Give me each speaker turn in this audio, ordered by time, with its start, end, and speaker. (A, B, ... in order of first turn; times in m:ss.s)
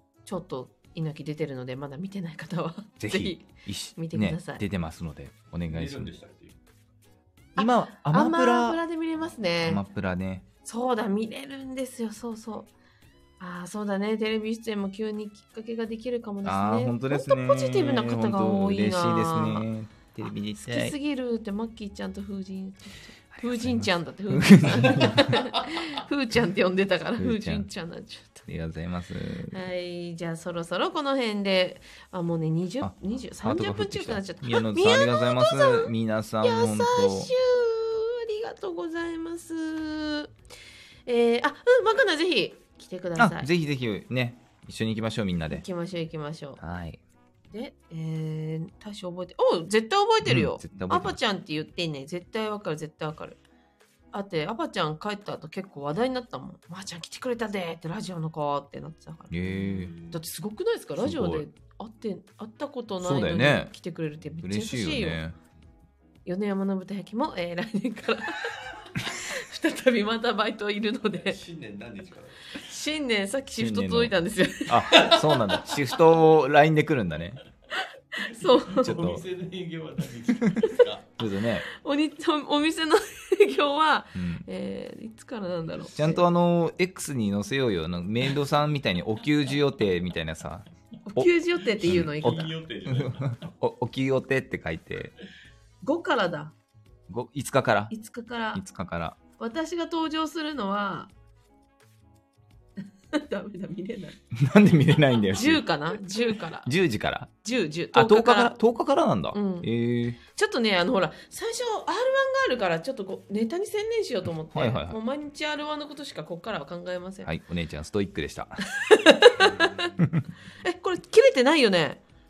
0:00.2-0:04.6 A
0:03.0-0:06.1 B
0:05.7-0:06.6 C
0:07.6-0:09.8 A
0:07.6-0:08.8 B
0:09.6-0:10.4 B
0:10.6-0:12.7 A
0:13.4-0:19.7 A
0:16.4-0:20.9 B
0:20.6-0:28.5 A
0:23.3-0:25.4 B
0:27.2-0:27.7 B
0:28.5-0:29.5 B
0:29.5-0:40.3 A
0:32.8-0:37.3 B
0:41.0-0:43.5 A
0:43.2-0:45.6 B
0:45.5-0:46.6 A
0:46.6-0:47.0 B
0:47.5-0:53.4 A
0:50.2-0:51.2 B
0:54.1-0:59.3 A
0:59.3-0:59.9 B
0:59.5-1:00.2 C
1:00.1-1:05.2 A
1:01.0-1:01.4 B
1:03.0-1:03.7 B
1:04.4-1:05.4 B
1:06.2-1:11.4 A
1:11.1-1:12.6 C
1:12.6-1:15.4 A
1:13.5-1:14.1 B
1:14.7-1:17.4 B
1:18.2-1:21.1 C
1:18.2-1:18.9 A
1:18.8-1:19.2 B
1:21.2-1:21.6 B
1:21.6-1:26.2 A
1:24.2-1:24.4 B
1:25.9-1:31.3 B
1:31.1-1:32.5 A
1:31.8-1:33.5 C
1:31.8-1:35.1 B
1:35.8-1:36.5 A
1:37.1-1:37.9 B
1:37.9-1:38.6 A
1:38.5-1:39.2 B
1:39.4-1:41.1 A
1:43.1-1:44.2 A
1:44.3-1:45.6 B
1:45.3-1:46.7 A
1:46.6-1:47.3 B
1:47.4-1:48.5 A
1:47.9-1:50.2 B
1:49.3-1:49.7 A
1:50.2-1:57.3 A
1:54.5-1:55.0 B
1:57.2-1:58.6 B
1:58.7-2:00.0 A
2:00.0-2:00.2 B
2:00.6-2:02.0 A